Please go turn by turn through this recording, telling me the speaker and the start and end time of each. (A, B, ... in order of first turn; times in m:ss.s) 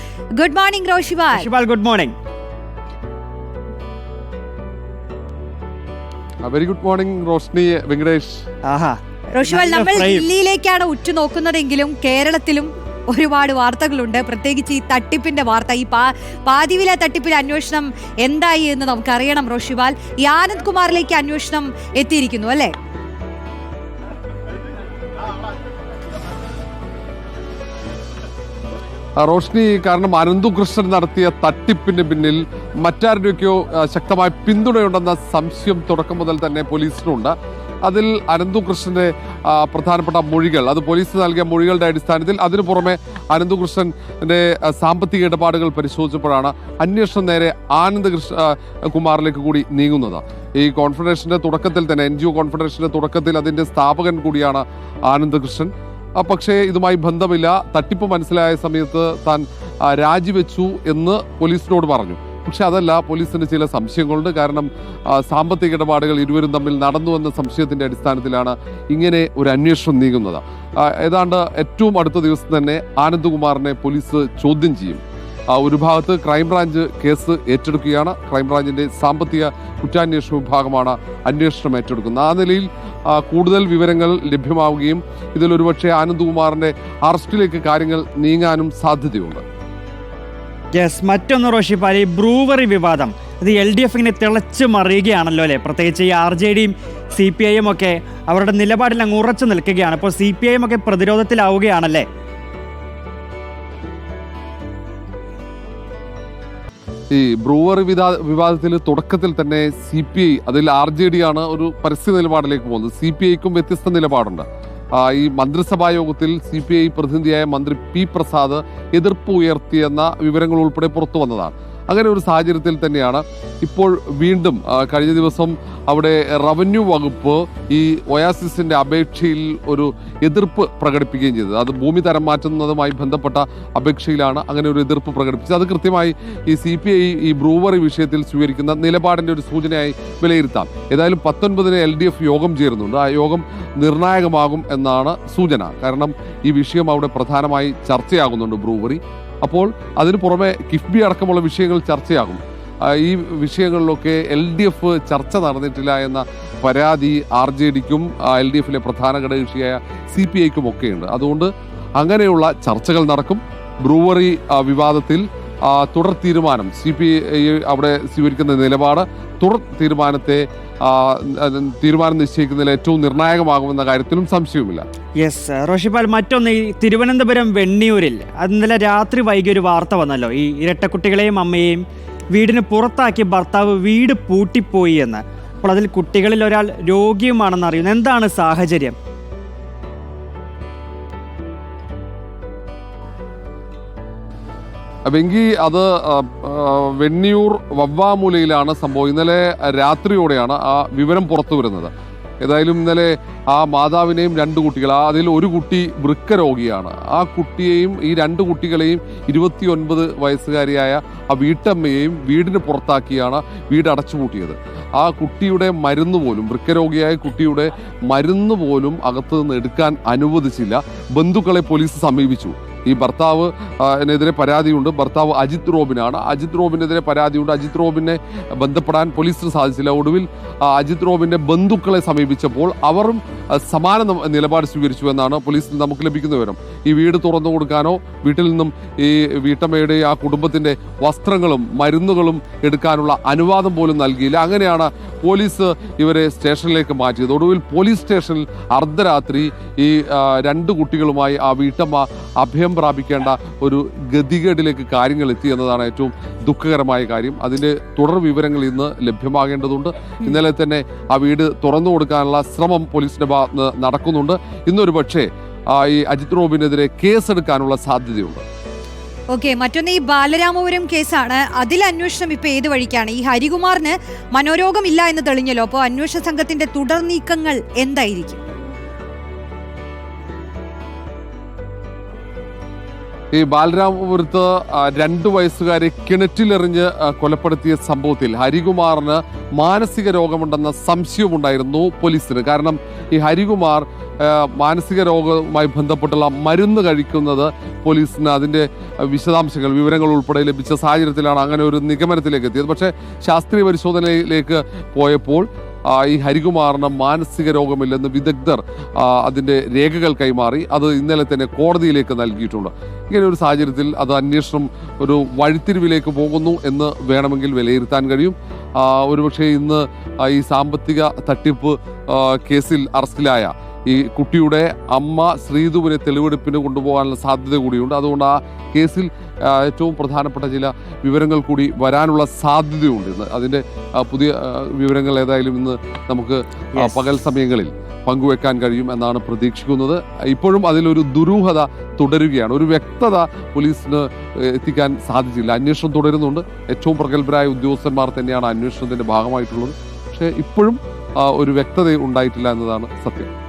0:00.4-0:01.5 A
0:01.3-0:02.1 B
0:06.4-0:08.4 C
0:08.7-0:10.3 B
0:09.4-0:22.7 A
0:29.2-1:29.4 C
1:30.8-1:42.1 B
1:47.1-2:54.8 C
2:55.2-3:09.0 B
3:15.1-4:28.4 C
4:29.3-4:38.4 A
4:43.3-5:53.3 C
5:36.8-5:37.0 B